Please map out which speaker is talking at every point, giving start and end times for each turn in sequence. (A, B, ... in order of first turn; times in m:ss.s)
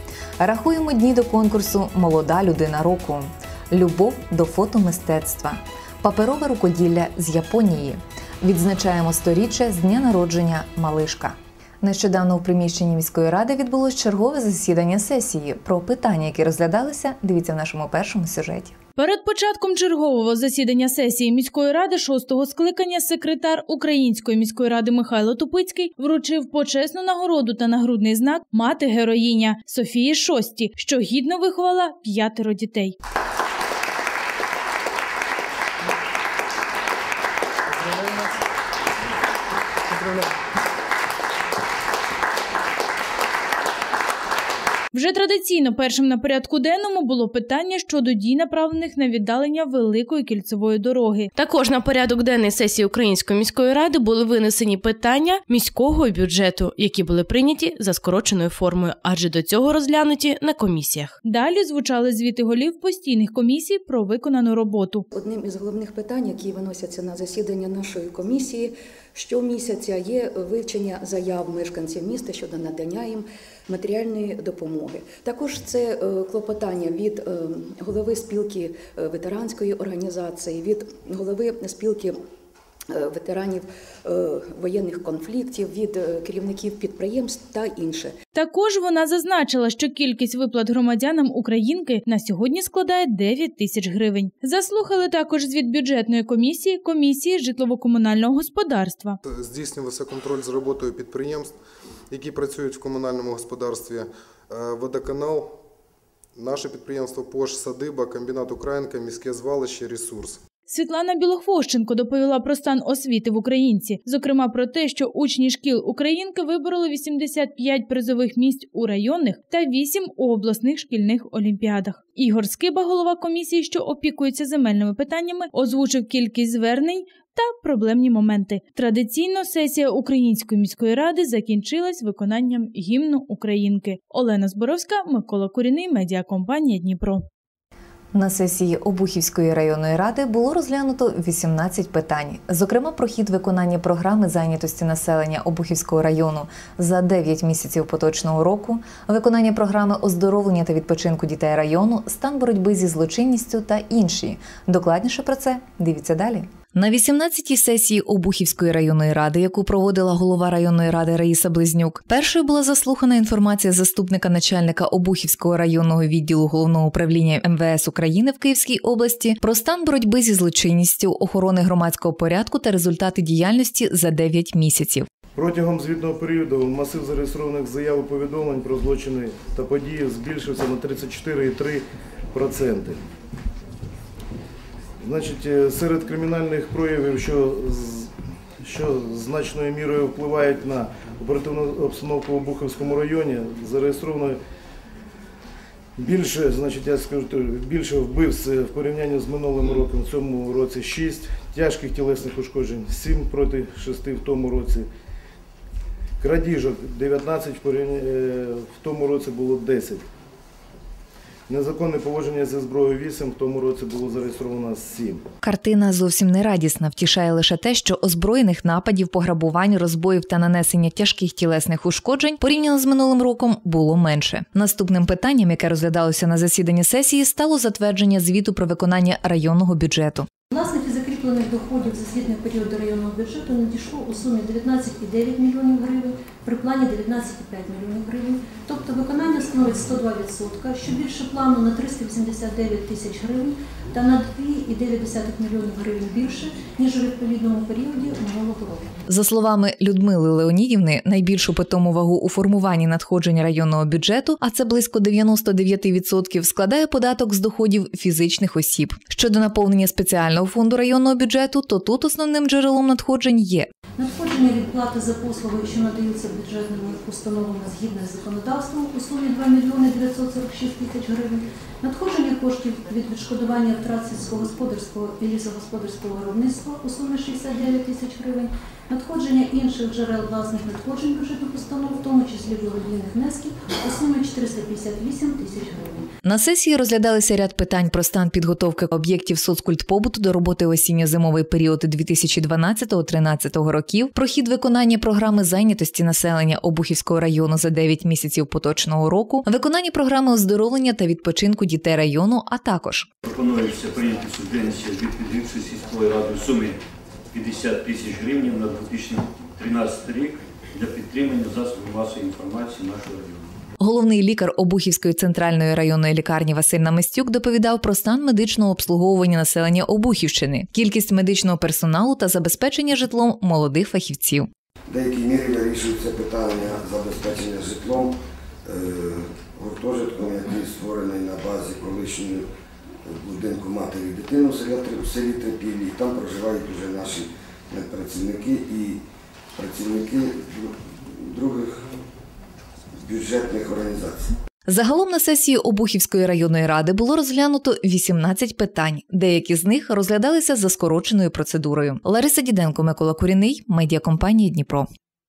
0:00.4-0:18.8 A
0:19.0-0:33.0 B
0:44.9-0:51.3 B
0:51.4-1:01.2 C
1:01.2-1:05.1 B
1:05.1-1:22.2 D
1:22.9-1:28.2 D
1:28.4-1:39.2 B
1:39.3-1:41.6 E
1:42.1-1:45.6 E
1:46.4-1:50.4 E
1:50.7-2:17.2 B
2:18.1-2:55.1 A
2:55.4-3:03.0 F
3:05.0-3:14.4 F
3:16.0-3:24.9 F
3:26.2-3:30.0 F
3:31.5-3:35.2 F
3:35.4-3:50.3 A
3:50.5-4:08.9 G
4:09.1-4:23.7 A
4:24.0-4:46.1 G
4:46.2-5:03.1 A
5:03.2-5:06.8 H
5:07.3-5:13.6 H
5:13.8-5:24.5 A
5:24.9-5:28.1 I
5:28.7-5:32.4 I
5:33.1-5:39.0 I
5:39.6-5:41.8 I
5:43.0-5:44.3 I
5:44.7-5:54.9 A